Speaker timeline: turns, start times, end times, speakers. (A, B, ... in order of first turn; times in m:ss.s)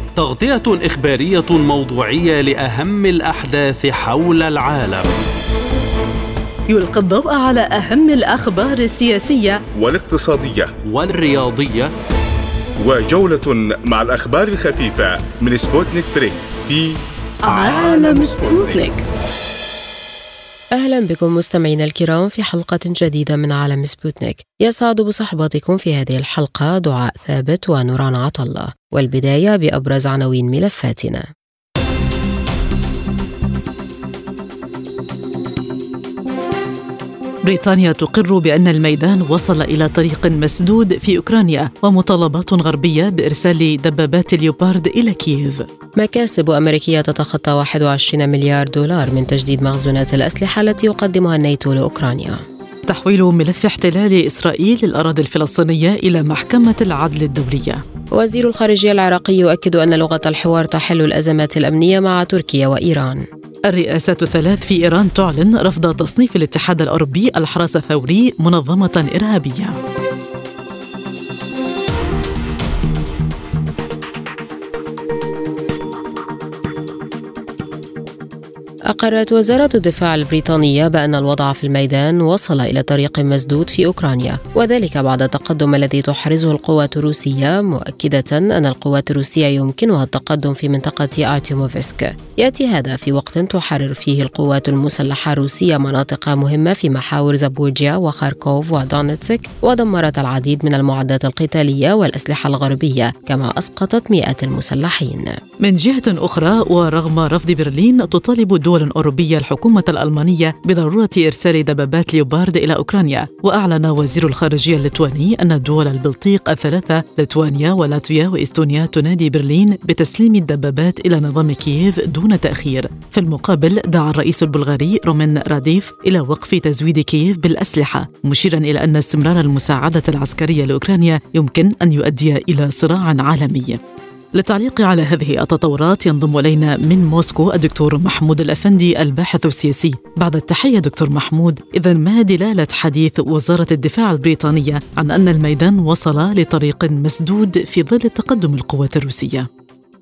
0:00.2-0:05.0 A
0:06.7-0:09.6 B
0:09.8-0:10.7 C
0:10.9-0:11.9 A
0:12.8-0:18.9 C
0:17.4-0:19.0 B
0:20.8-0:31.3 D
0:37.4-0:45.6 E
0:46.0-0:52.4 D
0:52.9-0:57.8 E
0:58.2-1:03.2 D
1:03.7-1:09.8 E
1:18.9-1:45.3 D
1:45.6-2:13.8 E
2:14.4-2:29.5 E